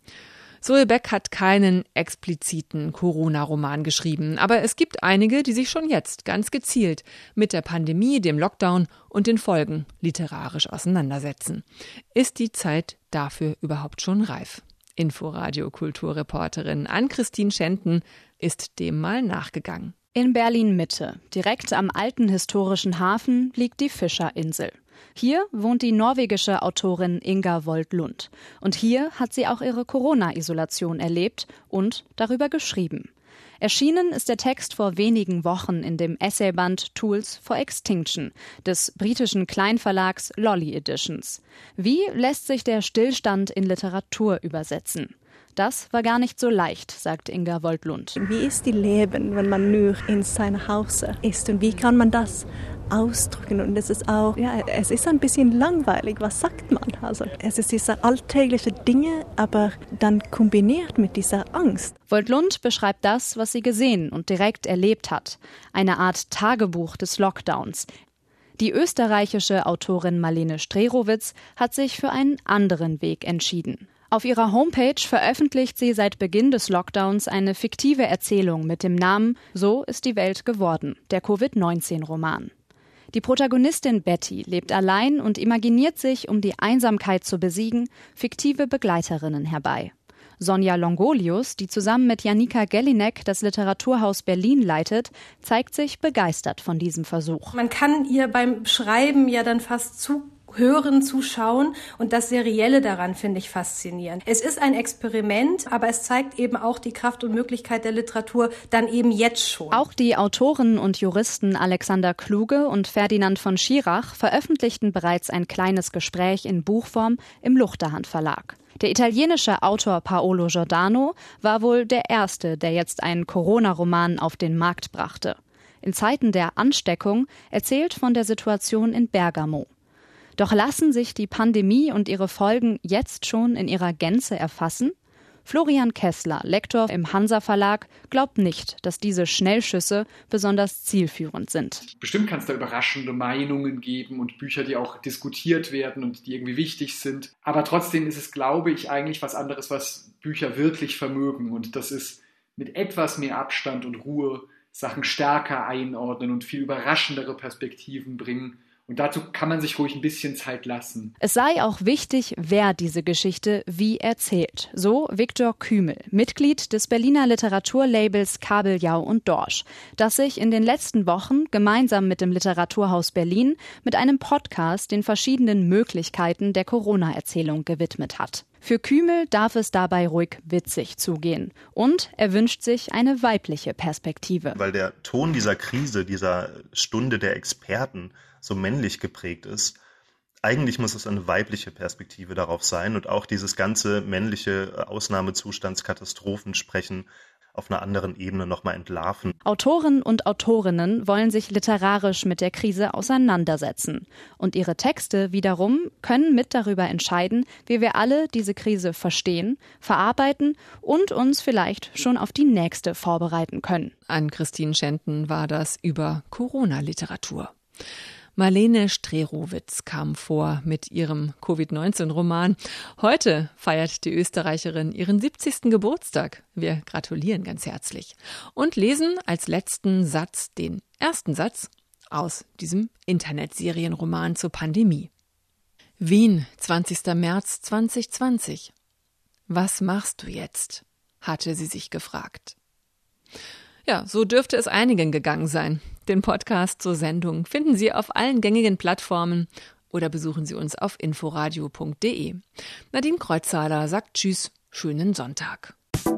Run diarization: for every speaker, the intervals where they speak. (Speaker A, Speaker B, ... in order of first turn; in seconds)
Speaker A: 0.6-19.9, 214.1-217.5, 218.4-235.1, 236.0-238.7, 239.5-242.6, 243.9-255.8
Speaker B: 20.1-33.1, 33.6-48.1, 62.1-67.9, 68.6-82.5, 83.1-97.5, 109.7-129.7, 130.4-134.9, 135.5-141.8, 161.2-184.6, 199.4-213.9
Speaker C: 48.2-61.9
Speaker D: 97.5-109.8
Speaker E: 142.0-161.1
Speaker F: 184.6-189.8, 190.4-199.4